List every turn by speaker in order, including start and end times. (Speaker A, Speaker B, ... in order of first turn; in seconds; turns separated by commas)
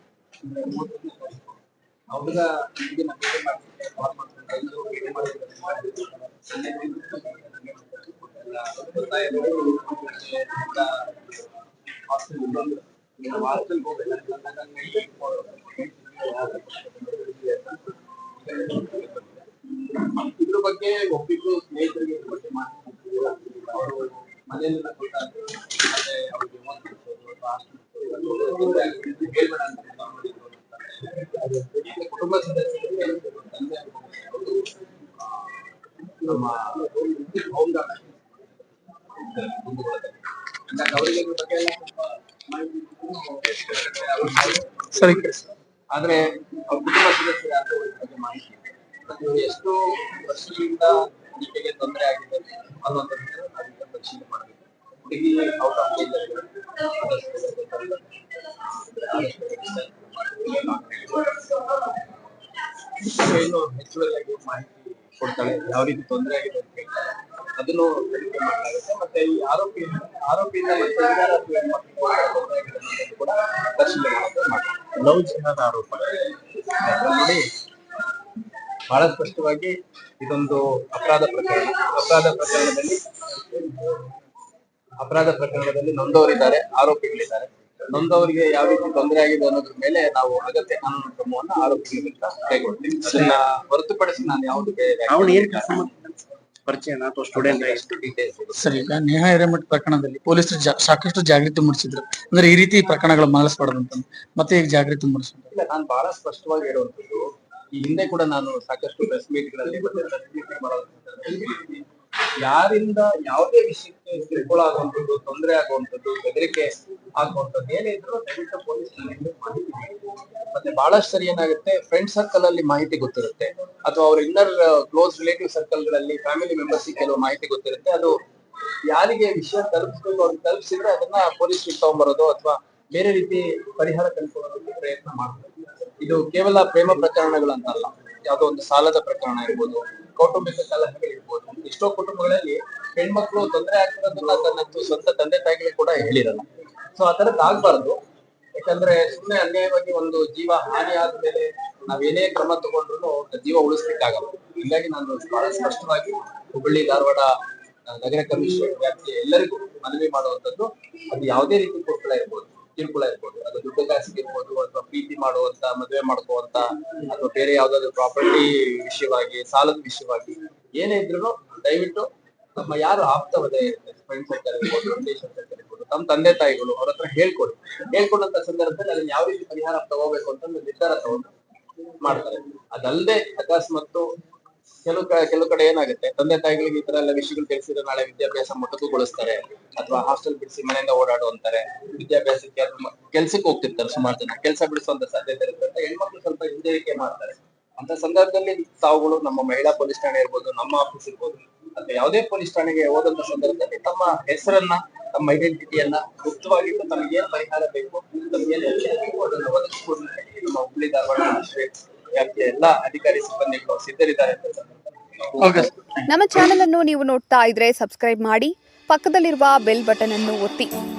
Speaker A: 0.4-62.2, Speaker B: 45.0-45.4, Speaker A: 63.0-77.5, Speaker C: 75.2-75.8, Speaker A: 78.9-83.8, Speaker A: 85.0-95.9, Speaker C: 95.1-97.8, Speaker A: 97.3-98.8, Speaker B: 98.6-105.5, Speaker A: 105.5-111.9, Speaker A: 112.4-128.2, Speaker A: 128.9-148.0, Speaker A: 148.6-157.3, Speaker A: 157.9-181.3, Speaker A: 182.0-184.1, Speaker A: 184.8-215.6, Speaker B: 215.4-215.7, Speaker D: 216.1-220.7